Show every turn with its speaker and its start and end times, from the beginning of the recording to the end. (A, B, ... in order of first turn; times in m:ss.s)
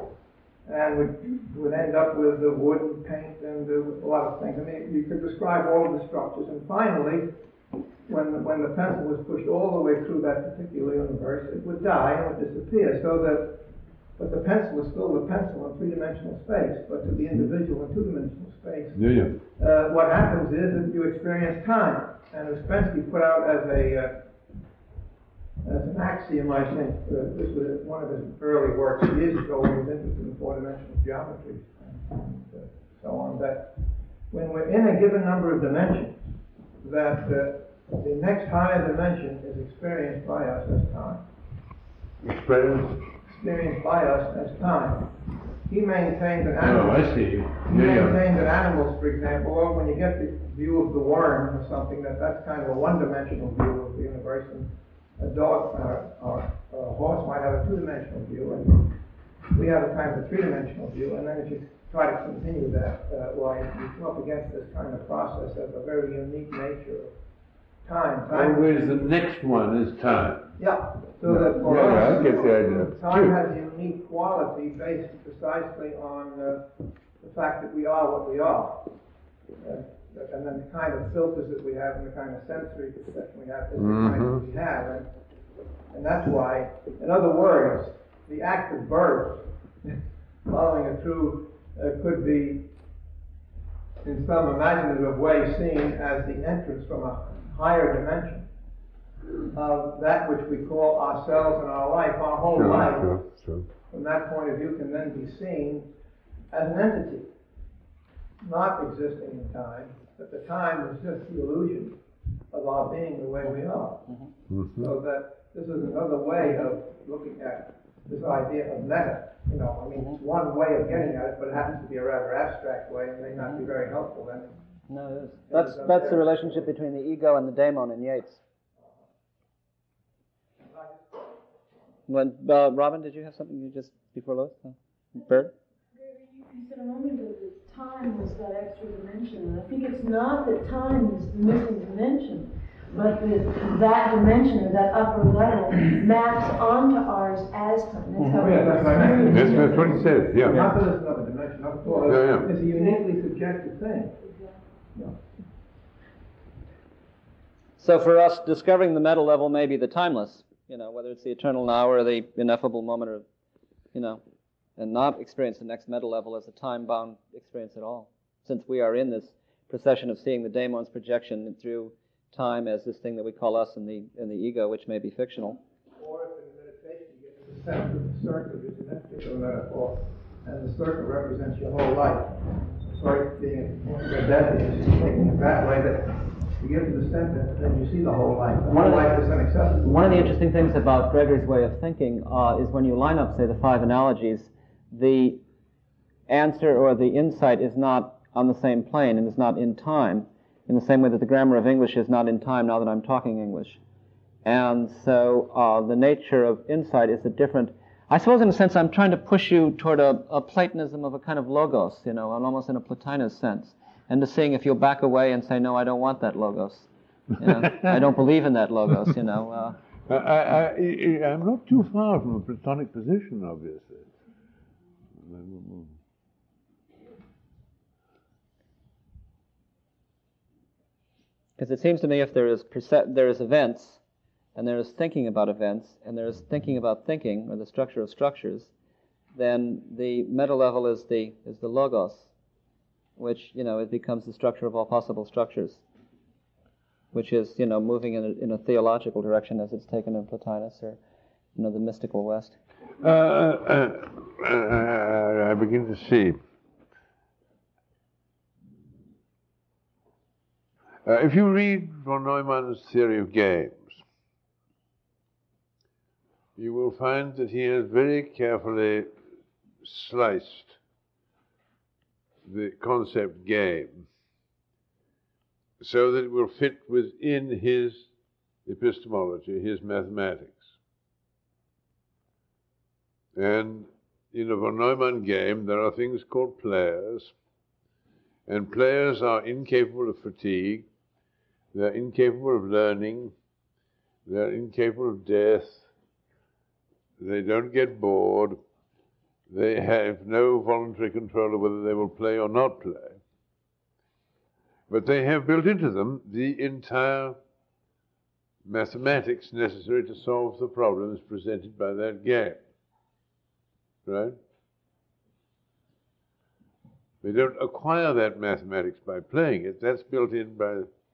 0:00.6-0:07.3 A
0:08.1-0:13.6 A
0:14.2-0:19.0 A
0:18.9-0:19.4 B
0:19.6-0:24.2 A
0:25.6-0:36.3 A
0:36.8-0:41.3 A
0:42.2-0:43.0 B
0:43.3-0:59.0 A
0:46.6-0:48.2 B
0:59.5-1:07.1 A
1:07.8-1:09.0 A
1:08.3-1:10.5 B
1:10.6-1:16.7 A
1:11.3-1:13.4 B
1:17.2-1:18.9 A
1:19.6-1:25.1 A
1:23.8-1:24.4 B
1:25.9-1:32.7 A
1:34.0-1:38.5 A
1:39.5-1:43.3 A
1:42.5-1:43.7 B
1:43.9-1:45.9 A
1:46.5-1:47.3 A
1:48.4-1:52.0 A
1:52.5-1:54.1 A
1:54.5-1:54.9 B
1:54.7-2:04.6 A
2:04.9-2:08.4 C
2:05.5-2:06.7 A
2:12.1-2:15.5 C
2:15.2-2:30.4 D
2:28.2-2:28.6 C
2:28.3-2:34.2 A
2:29.3-2:30.6 B
2:32.1-2:32.5 B
2:34.2-2:34.6 D
2:34.9-2:35.3 A
2:37.8-2:43.2 C
2:43.9-2:44.2 C
2:44.8-2:55.6 C
2:56.0-3:10.3 A
3:08.7-3:09.2 C
3:09.7-3:15.4 C
3:16.3-3:23.8 C
3:24.4-3:39.8 C
3:37.7-3:37.9 B
3:40.1-3:44.1 B
3:45.2-3:46.0 B
3:51.6-3:54.0 C
3:54.6-3:58.7 C
3:59.4-4:02.3 C
4:03.2-4:05.8 C
4:07.1-4:11.0 C
4:11.6-4:12.6 C
4:13.0-4:16.4 B
4:21.0-4:24.0 B
4:26.6-4:29.1 B
4:29.8-4:30.8 B
4:32.4-4:34.1 B
4:35.8-4:38.1 B
4:38.7-4:40.8 B
4:43.4-4:47.3 B
4:48.5-4:50.9 B
4:51.7-4:53.3 B
4:54.3-4:55.9 B
4:57.2-4:58.6 B
4:59.5-5:03.2 B
5:04.9-5:07.4 B
5:08.6-5:12.6 B
5:14.1-5:14.4 B
5:17.2-5:20.9 B